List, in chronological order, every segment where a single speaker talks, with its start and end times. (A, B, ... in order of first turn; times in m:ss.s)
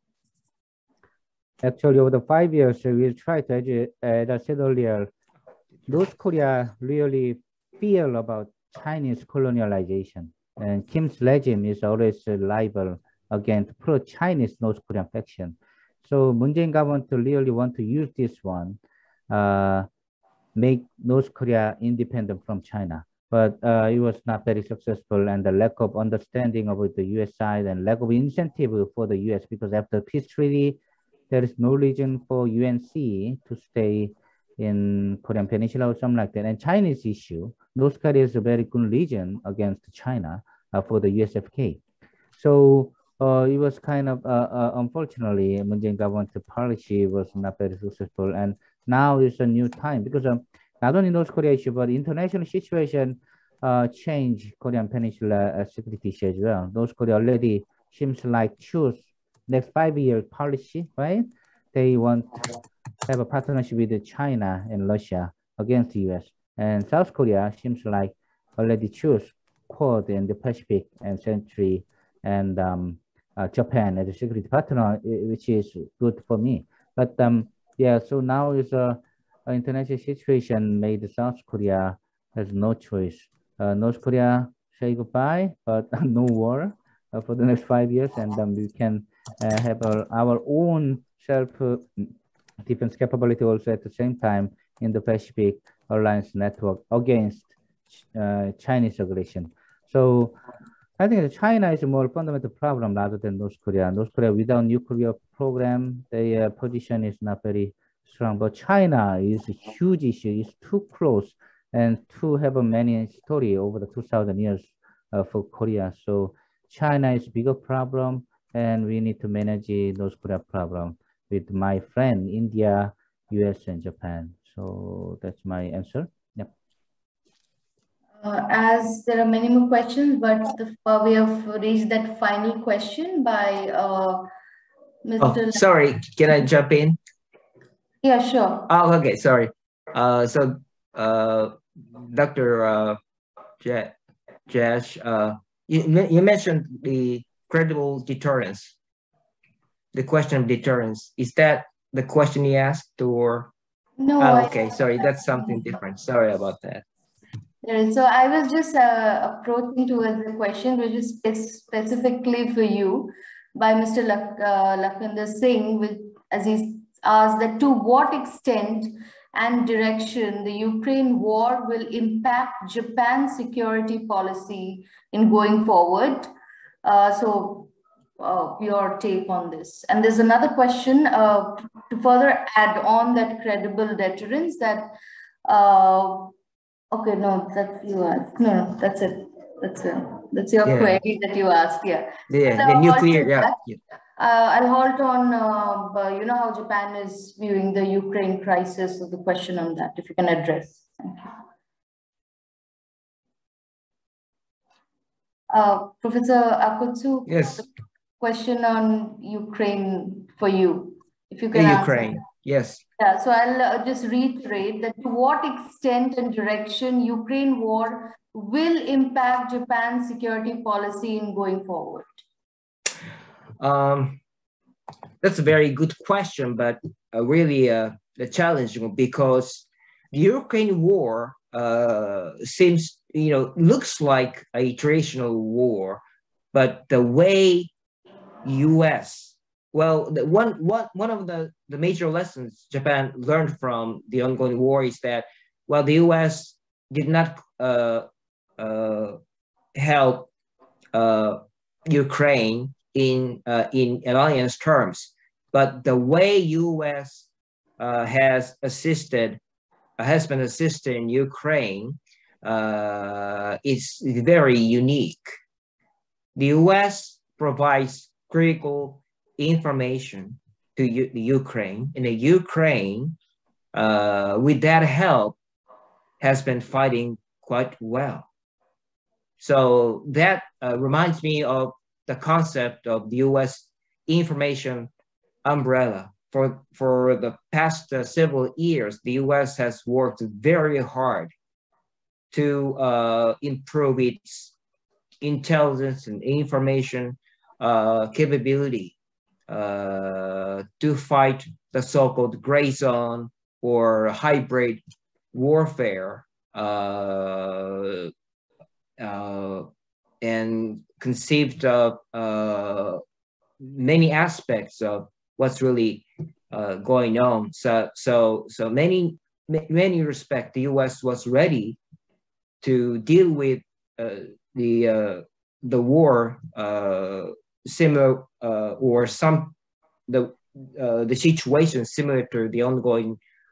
0:01.6-0:05.1 A
0:05.8-0:19.9 A
0:20.5-0:30.8 A
0:31.3-0:41.8 A
0:42.4-1:02.6 A
1:03.1-1:40.4 A
1:41.0-2:06.5 A
2:08.2-2:14.3 B
2:15.0-2:15.6 B
2:15.2-2:17.0 C
2:18.0-2:18.7 B
2:18.7-2:23.0 C
2:23.6-2:24.0 C
2:24.5-2:28.7 C
2:29.9-2:33.5 C
2:34.0-2:35.7 B
2:34.2-2:36.8 C
2:37.6-2:56.3 B
2:56.8-3:06.3 B
3:06.9-3:13.6 B
3:10.6-3:11.0 C
3:12.3-3:13.8 C
3:14.2-3:21.3 B
3:25.5-3:27.7 B
3:27.3-3:27.6 C
3:28.2-3:32.2 B
3:31.5-3:32.8 C
3:33.0-3:42.2 B
3:43.6-3:44.2 C
3:45.2-3:57.7 C
3:58.4-4:09.2 C
4:09.7-4:10.3 C
4:10.9-4:17.3 C
4:17.8-4:19.4 C
4:20.0-4:25.3 C
4:26.4-4:33.2 C
4:33.7-4:35.4 C
4:36.2-4:38.3 C
4:39.4-4:44.9 C
4:45.4-4:51.3 C
4:52.3-4:54.5 C
4:55.2-4:58.9 C
4:59.5-5:04.8 C
5:05.3-5:08.1 C
5:09.0-5:09.7 C
5:10.2-5:13.0 C
5:13.6-5:21.8 C
5:22.6-5:29.6 C
5:30.1-5:33.2 C